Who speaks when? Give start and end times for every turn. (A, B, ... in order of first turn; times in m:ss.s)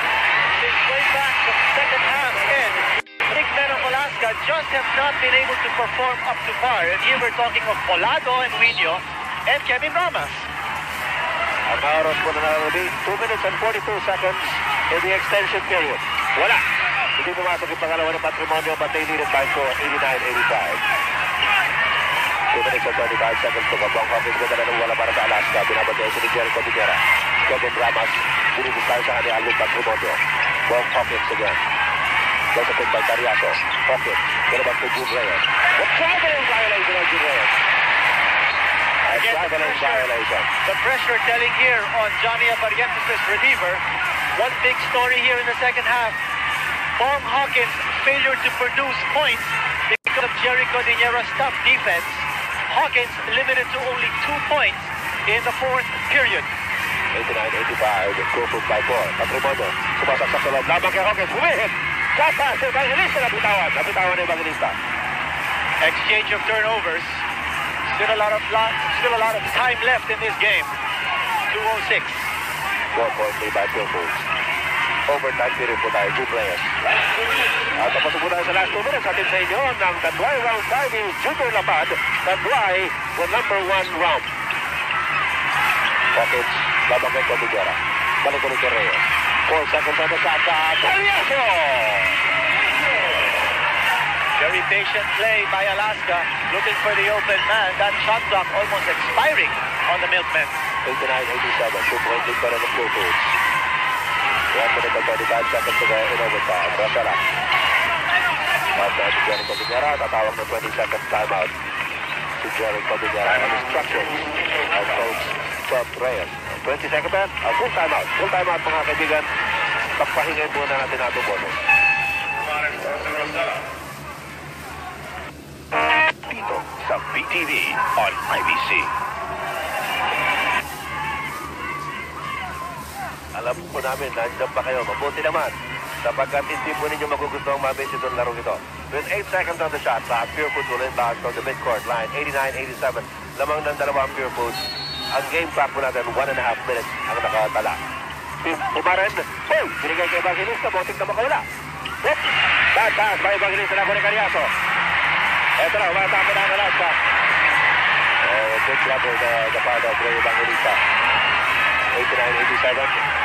0:00.6-0:10.5 A
0:11.7-0:16.6 B
0:17.2-0:20.8 B
0:22.5-0:31.6 B
0:32.5-0:37.6 B
0:39.1-0:40.5 B
0:39.1-0:40.1 A
0:40.6-0:43.8 A
0:44.4-0:46.2 A
0:47.0-0:56.5 A
0:57.1-1:04.8 B
1:05.8-1:07.2 A
1:07.9-1:10.7 A
1:11.5-1:12.3 A
1:12.9-1:14.3 B
1:15.1-1:16.8 B
1:17.7-1:24.3 B
1:26.1-1:32.2 B
1:34.4-1:40.6 A
1:40.8-1:43.4 B
1:44.5-1:47.2 B
1:48.7-1:51.6 B
1:52.4-1:59.3 B
2:00.0-2:01.6 B
2:06.3-2:08.9 C
2:13.3-2:27.8 B
2:28.4-2:31.5 B
2:32.0-2:34.5 B
2:35.6-2:37.0 B
2:38.2-2:40.8 B
2:41.9-2:43.0 B